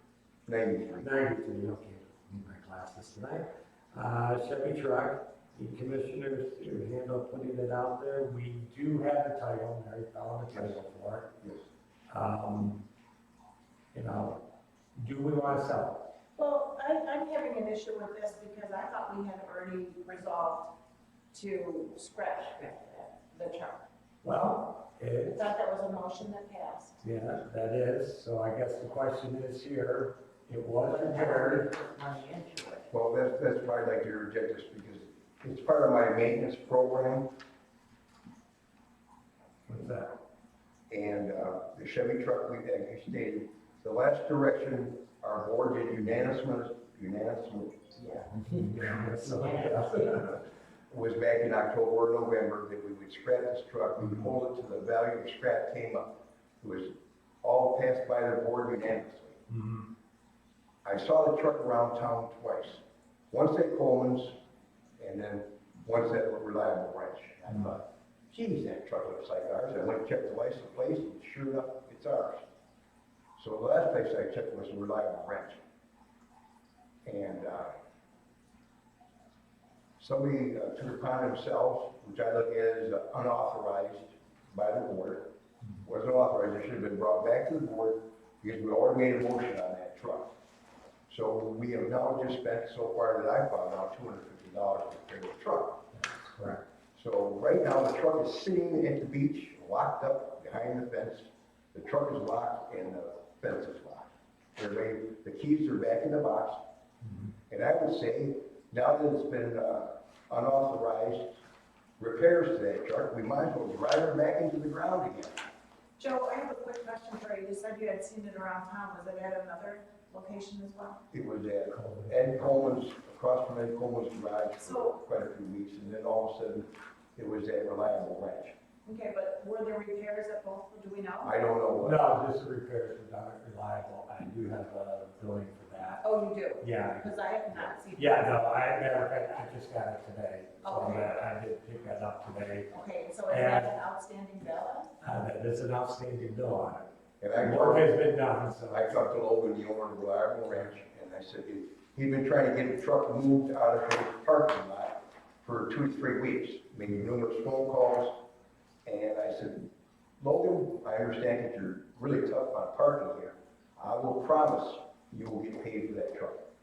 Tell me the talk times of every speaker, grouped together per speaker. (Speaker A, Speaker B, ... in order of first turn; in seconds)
Speaker A: 0.5-1.1, 10.5-10.8, 32.9-37.3, 40.9-47.9, 50.9-59.4, 60.8-64.4, 65.0-72.4, 73.4-75.6, 77.0-77.8, 80.0-85.3, 85.8-90.3, 91.1-95.8, 96.9-106.6, 107.5-111.4, 112.0-115.5, 121.1-128.6, 131.2-132.1, 147.2-148.0, 148.7-158.2, 158.8-166.4
Speaker B: 1.0-11.3, 12.1-12.8, 13.9-14.4, 14.9-16.1, 24.2-25.5, 27.0-31.7, 39.7-40.1, 48.3-50.4, 59.5-59.9, 95.9-96.7, 121.7-122.6, 131.8-136.1, 136.6-142.7, 143.3-143.7, 145.0-149.0
Speaker C: 16.4-20.7, 21.3-23.8, 25.3-27.0, 116.0-121.0, 124.6-125.0, 128.8-131.3, 136.0-138.5, 140.6-141.3, 142.7-144.9
Speaker D: 30.8-32.9, 48.1-48.4, 49.2-50.1